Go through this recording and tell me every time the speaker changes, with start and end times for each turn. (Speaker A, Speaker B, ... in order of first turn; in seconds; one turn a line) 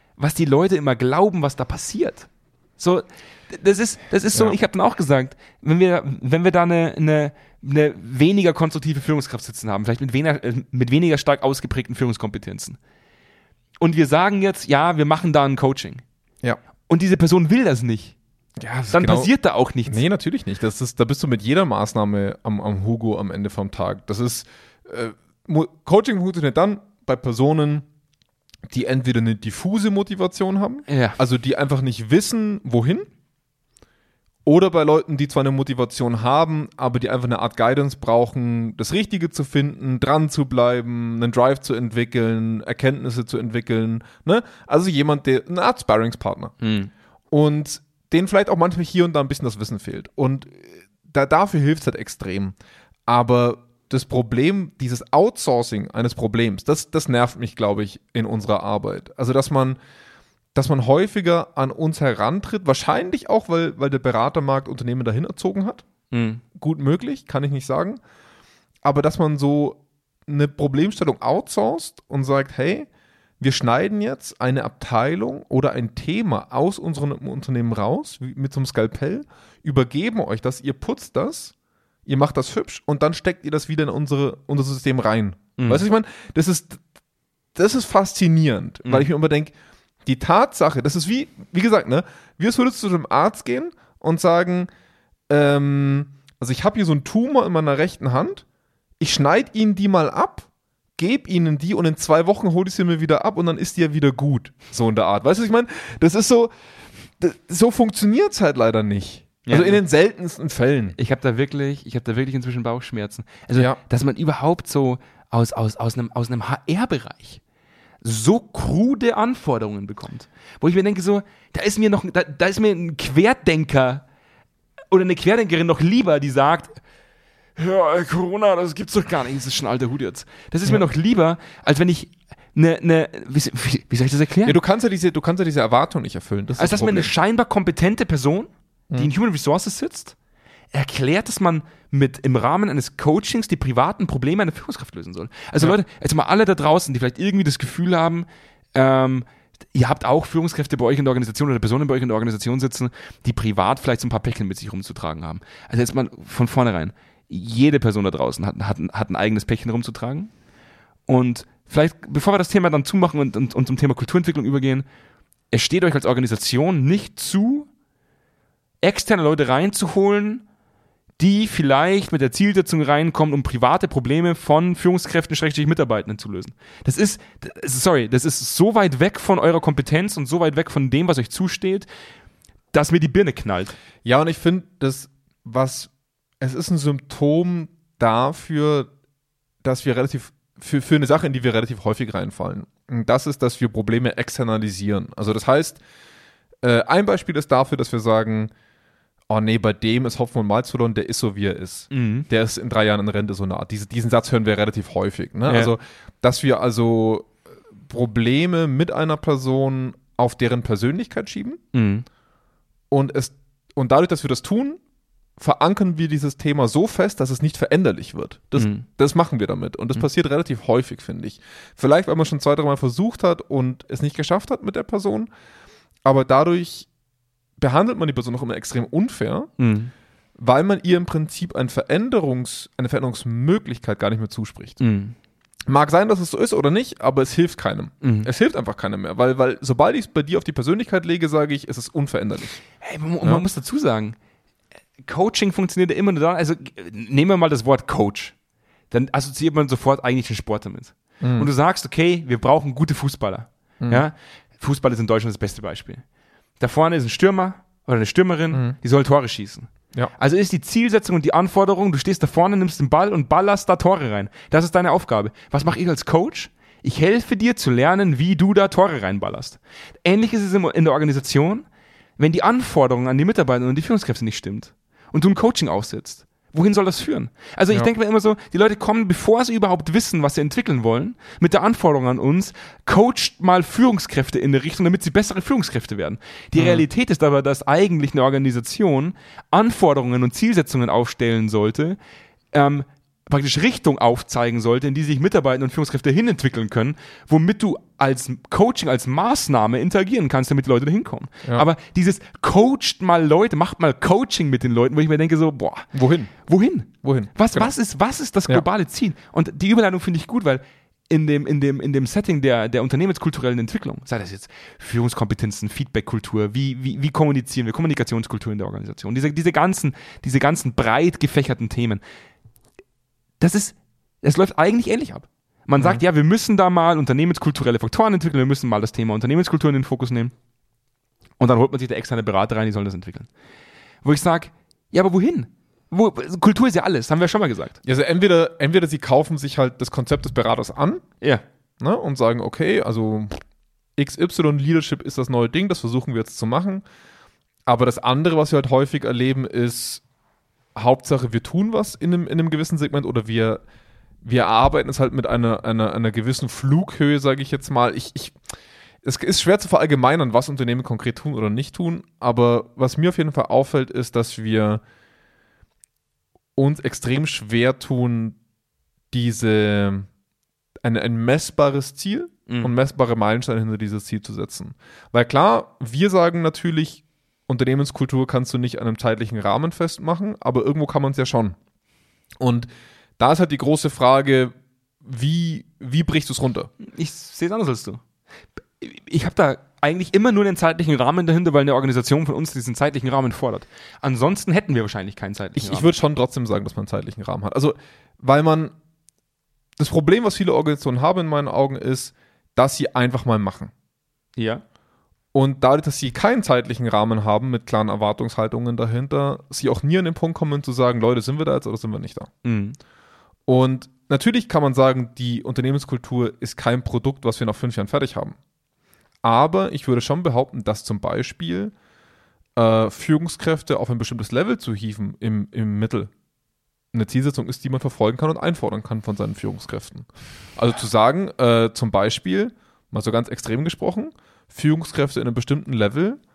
Speaker A: 0.2-12.8
Speaker A: 13.8-16.0
Speaker A: 16.9-18.2
Speaker B: 18.6-19.3
Speaker A: 18.9-20.1
Speaker B: 19.9-27.9
Speaker B: 28.7-33.1
Speaker A: 30.9-31.2
Speaker B: 34.5-46.5
Speaker A: 46.6-46.9
Speaker B: 47.3-52.6
Speaker B: 53.1-59.8
Speaker B: 60.5-65.8
Speaker A: 66.1-66.4
Speaker B: 66.5-68.0
Speaker B: 68.8-72.9
Speaker B: 73.4-81.5
Speaker B: 82.1-86.8
Speaker A: 85.6-85.8
Speaker B: 87.5-89.5
Speaker B: 90.0-94.7
Speaker B: 95.3-98.5
Speaker B: 99.0-106.5
Speaker B: 107.2-111.0
Speaker A: 109.5-109.8
Speaker A: 111.0-117.4
Speaker A: 118.0-124.0
Speaker A: 124.9-126.8
Speaker A: 127.6-134.6
Speaker B: 134.5-137.1
Speaker A: 136.6-140.1
Speaker A: 140.7-160.3
Speaker A: 161.1-164.9
Speaker A: 165.5-167.7
Speaker A: 168.8-170.4
Speaker A: 171.2-181.9
Speaker A: 182.7-183.8
Speaker B: 184.0-188.9
Speaker B: 189.6-195.8
Speaker B: 196.6-198.5
Speaker B: 199.3-211.6
Speaker A: 201.9-202.3
Speaker A: 205.5-205.7
Speaker A: 211.7-212.1
Speaker B: 212.9-214.8
Speaker B: 215.4-225.3
Speaker A: 218.6-218.8
Speaker B: 226.1-226.9
Speaker B: 227.6-229.5
Speaker A: 229.6-229.9
Speaker B: 230.4-234.8
Speaker A: 234.8-235.1
Speaker B: 235.7-242.6
Speaker A: 238.0-238.3
Speaker A: 242.8-244.2
Speaker A: 245.0-248.3
Speaker A: 248.9-256.0
Speaker B: 251.2-251.5
Speaker A: 256.6-271.7
Speaker A: 272.2-292.0
Speaker B: 286.6-286.8
Speaker A: 292.5-305.9
Speaker B: 305.9-306.3
Speaker A: 306.4-322.0
Speaker B: 307.0-307.7
Speaker A: 323.4-330.3
Speaker A: 331.4-333.3
Speaker A: 334.0-337.8
Speaker B: 337.8-341.0
Speaker B: 341.8-343.4
Speaker B: 344.0-346.8
Speaker B: 347.7-350.0
Speaker B: 350.8-353.6
Speaker B: 354.2-358.4
Speaker B: 359.0-364.8
Speaker B: 366.6-368.4
Speaker B: 369.1-370.1
Speaker B: 370.8-381.6
Speaker A: 372.5-372.7
Speaker B: 382.4-384.5
Speaker B: 385.0-386.7
Speaker A: 386.8-388.0
Speaker A: 388.8-395.9
Speaker B: 395.6-398.7
Speaker B: 399.8-403.7
Speaker A: 404.4-404.6
Speaker B: 405.3-412.3
Speaker A: 412.4-412.8
Speaker B: 413.5-418.4
Speaker B: 419.2-421.7
Speaker B: 422.6-426.1
Speaker B: 426.9-436.2